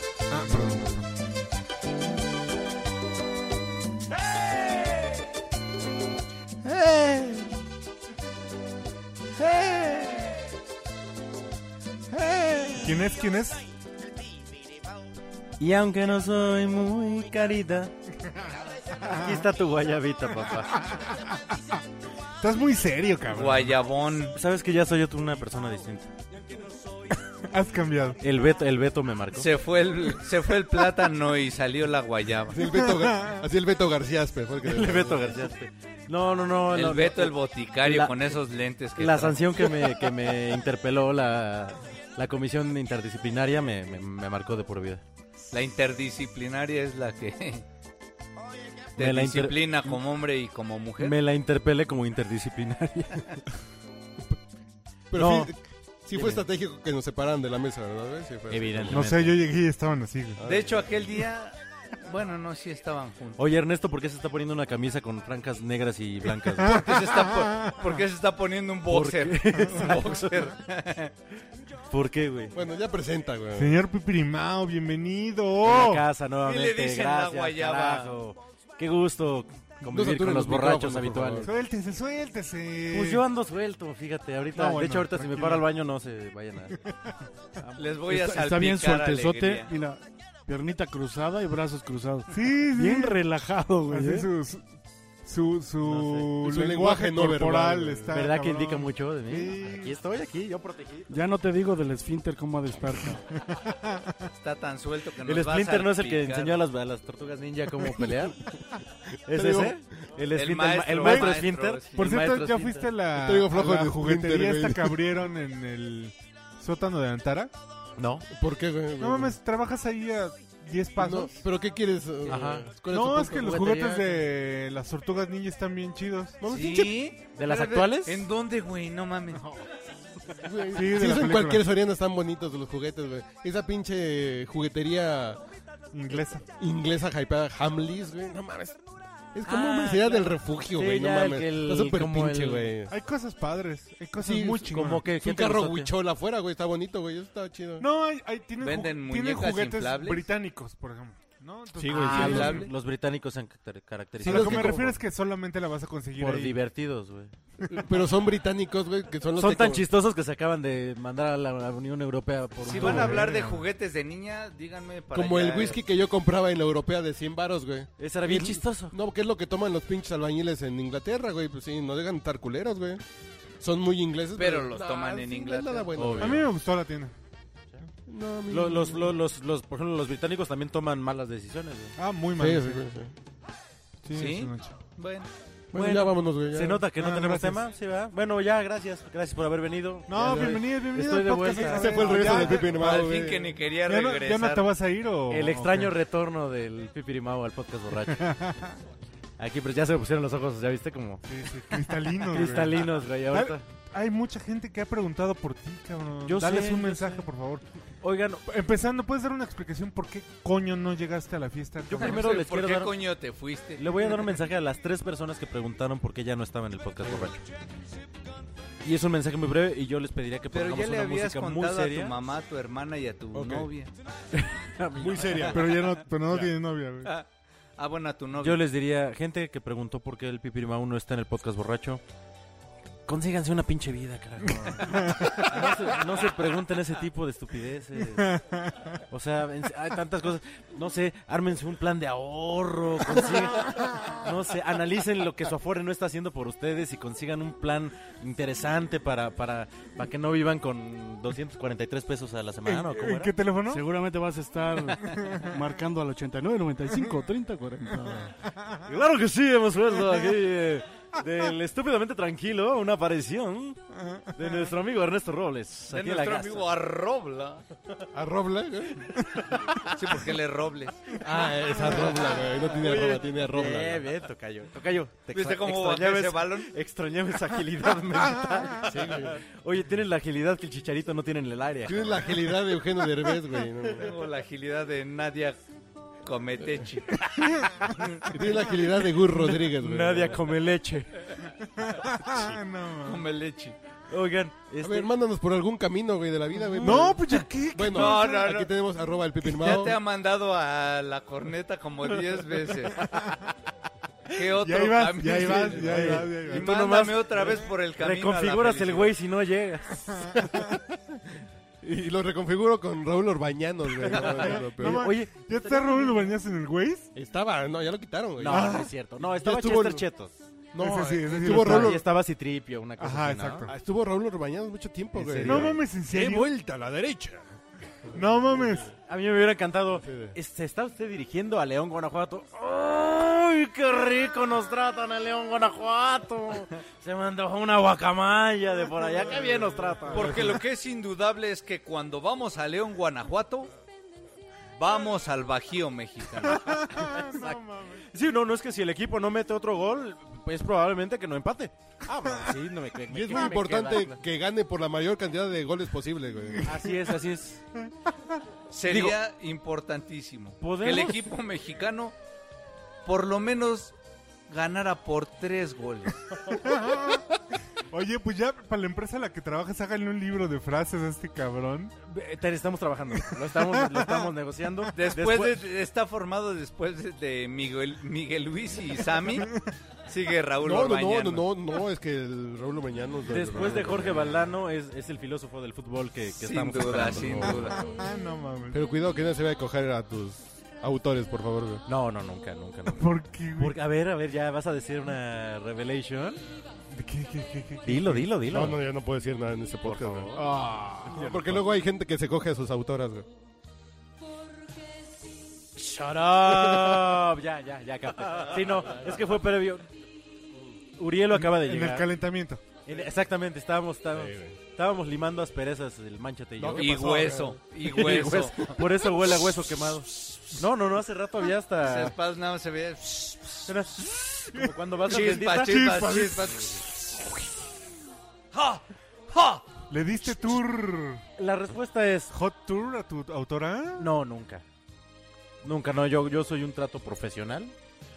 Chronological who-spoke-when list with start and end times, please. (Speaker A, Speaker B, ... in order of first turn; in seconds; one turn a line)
Speaker A: 0.3-1.1
Speaker B: 6.7-7.5
Speaker B: 9.4-10.4
Speaker B: 12.3-12.8
Speaker A: 12.7-13.6
Speaker B: 15.6-17.9
Speaker A: 18.3-19.5
Speaker B: 19.1-20.8
Speaker A: 20.8-21.4
Speaker A: 22.4-23.8
Speaker C: 23.3-24.4
Speaker B: 24.3-26.1
Speaker A: 27.1-28.2
Speaker B: 28.2-29.5
Speaker C: 29.4-32.6
Speaker D: 32.5-35.4
Speaker A: 32.7-33.4
Speaker B: 34.6-38.3
Speaker C: 36.7-39.8
Speaker B: 39.0-45.0
Speaker C: 45.5-47.6
Speaker C: 49.0-51.2
Speaker B: 49.0-50.0
Speaker B: 51.0-53.4
Speaker D: 55.1-59.1
Speaker B: 55.1-55.5
Speaker B: 56.1-56.4
Speaker B: 58.5-59.4
Speaker A: 58.9-60.4
Speaker D: 60.4-60.9
Speaker C: 60.5-63.4
Speaker B: 63.4-66.8
Speaker A: 66.6-68.0
Speaker C: 66.6-71.1
Speaker B: 68.9-70.5
Speaker B: 71.9-72.5
Speaker D: 72.5-73.8
Speaker A: 73.6-76.1
Speaker B: 75.6-81.6
Speaker C: 76.4-78.1
Speaker D: 79.9-81.5
Speaker A: 81.4-83.2
Speaker B: 82.9-86.8
Speaker A: 84.5-85.7
Speaker A: 86.7-87.1
Speaker B: 87.6-88.0
Speaker C: 87.8-89.7
Speaker E: 88.1-94.3
Speaker A: 92.3-93.2
Speaker A: 93.9-94.7
Speaker A: 95.2-100.0
Speaker B: 95.8-96.3
Speaker D: 96.4-98.1
Speaker B: 98.1-101.2
Speaker E: 101.1-103.2
Speaker A: 103.4-104.2
Speaker C: 104.3-106.6
Speaker B: 105.2-108.4
Speaker B: 109.3-113.0
Speaker D: 109.3-109.8
Speaker C: 110.3-112.1
Speaker A: 111.0-111.4
Speaker A: 112.0-117.5
Speaker D: 113.2-115.0
Speaker B: 118.0-118.3
Speaker D: 118.3-119.4
Speaker A: 119.0-121.4
Speaker D: 121.0-123.6
Speaker B: 122.3-122.8
Speaker A: 122.8-126.4
Speaker B: 123.3-124.2
Speaker D: 126.4-126.9
Speaker C: 126.4-129.4
Speaker B: 127.3-128.2
Speaker D: 130.4-135.4
Speaker A: 130.7-131.6
Speaker A: 135.9-136.4
Speaker D: 136.6-138.8
Speaker D: 139.3-142.9
Speaker B: 139.5-142.8
Speaker A: 142.9-145.0
Speaker D: 144.2-147.9
Speaker B: 144.7-145.9
Speaker A: 147.8-152.7
Speaker C: 148.6-150.3
Speaker D: 151.8-152.7
Speaker B: 151.9-154.9
Speaker C: 151.9-152.7
Speaker A: 154.2-156.6
Speaker D: 154.2-154.9
Speaker B: 156.1-157.3
Speaker D: 157.7-159.9
Speaker B: 159.4-163.3
Speaker A: 162.7-163.7
Speaker C: 162.7-165.8
Speaker D: 165.1-173.0
Speaker B: 168.0-168.9
Speaker D: 173.6-176.5
Speaker C: 174.4-175.9
Speaker B: 176.0-176.4
Speaker A: 176.2-177.1
Speaker D: 178.1-179.1
Speaker B: 178.5-182.0
Speaker A: 182.0-182.8
Speaker D: 182.4-183.1
Speaker A: 184.1-184.8
Speaker C: 184.1-185.3
Speaker D: 185.7-186.8
Speaker B: 185.7-192.4
Speaker A: 187.0-187.6
Speaker A: 190.1-193.1
Speaker D: 191.6-193.6
Speaker C: 192.3-194.7
Speaker A: 193.9-195.9
Speaker B: 195.3-198.4
Speaker A: 198.2-198.8
Speaker B: 199.4-203.7
Speaker A: 201.3-207.6
Speaker B: 206.2-207.3
Speaker B: 208.0-208.4
Speaker A: 208.5-212.3
Speaker B: 211.9-212.9
Speaker C: 212.0-213.9
Speaker B: 213.8-217.5
Speaker B: 218.8-222.1
Speaker C: 220.5-223.9
Speaker B: 223.3-223.7
Speaker B: 224.3-226.5
Speaker D: 225.0-225.5
Speaker A: 225.4-227.1
Speaker C: 227.8-228.6
Speaker B: 228.4-232.0
Speaker B: 233.1-238.4
Speaker A: 234.5-235.7
Speaker A: 238.2-239.0
Speaker B: 239.1-253.3
Speaker A: 243.8-244.1
Speaker A: 252.7-253.9
Speaker E: 253.7-258.3
Speaker A: 255.1-255.5
Speaker B: 258.9-266.7
Speaker C: 265.9-267.6
Speaker D: 268.1-269.1
Speaker C: 269.9-271.0
Speaker D: 271.2-274.1
Speaker B: 271.5-282.4
Speaker C: 275.3-276.7
Speaker D: 278.8-279.4
Speaker D: 281.9-284.2
Speaker C: 284.0-285.6
Speaker C: 286.2-288.2
Speaker A: 287.4-287.9
Speaker D: 288.3-290.4
Speaker B: 289.6-291.3
Speaker A: 291.8-293.3
Speaker B: 292.3-292.6
Speaker C: 293.0-293.8
Speaker B: 294.1-295.1
Speaker D: 294.8-300.0
Speaker B: 296.7-297.4
Speaker A: 296.8-298.5
Speaker C: 297.9-298.7
Speaker C: 299.4-303.1
Speaker A: 303.0-303.4
Speaker C: 304.4-309.2
Speaker A: 304.5-306.7
Speaker B: 305.2-310.6
Speaker D: 311.8-315.1
Speaker B: 314.1-316.4
Speaker A: 314.1-317.1
Speaker D: 317.1-320.1
Speaker B: 318.4-320.3
Speaker A: 318.5-318.9
Speaker D: 320.7-322.0
Speaker A: 320.8-322.0
Speaker B: 321.0-323.7
Speaker A: 323.0-323.7
Speaker D: 323.7-327.5
Speaker B: 325.1-325.9
Speaker A: 325.4-326.5
Speaker A: 328.1-328.9
Speaker B: 329.1-340.6
Speaker D: 330.0-330.4
Speaker C: 340.1-343.7
Speaker D: 340.1-340.5
Speaker C: 344.8-347.0
Speaker A: 346.5-348.1
Speaker B: 348.1-354.2
Speaker A: 352.3-352.6
Speaker D: 353.1-356.7
Speaker B: 356.6-357.6
Speaker C: 358.7-362.2
Speaker B: 358.9-359.2
Speaker B: 360.6-361.2
Speaker C: 363.1-363.9
Speaker C: 364.5-366.3
Speaker A: 366.6-367.2
Speaker A: 367.9-371.9
Speaker B: 372.1-375.6
Speaker A: 373.3-374.3
Speaker C: 374.9-379.5
Speaker A: 379.4-379.7
Speaker C: 380.1-381.5
Speaker D: 380.6-384.4
Speaker B: 383.2-388.0
Speaker C: 386.4-387.8
Speaker A: 388.0-388.8
Speaker D: 388.7-391.8
Speaker B: 391.9-396.4
Speaker A: 392.9-393.8
Speaker A: 396.9-398.4
Speaker B: 397.8-398.8
Speaker D: 398.5-403.3
Speaker B: 399.9-401.6
Speaker A: 400.6-401.4
Speaker B: 405.8-409.9
Speaker B: 411.0-412.1
Speaker A: 411.3-412.7
Speaker B: 412.9-417.1
Speaker D: 414.1-414.6
Speaker D: 416.6-418.4
Speaker C: 416.8-418.8
Speaker B: 417.9-422.1
Speaker C: 421.8-423.7
Speaker B: 423.7-425.9
Speaker C: 425.1-426.9
Speaker A: 425.6-426.8
Speaker C: 428.5-429.6
Speaker A: 429.9-431.2
Speaker B: 431.4-432.3
Speaker A: 432.3-434.1
Speaker B: 434.0-434.6
Speaker B: 435.6-437.8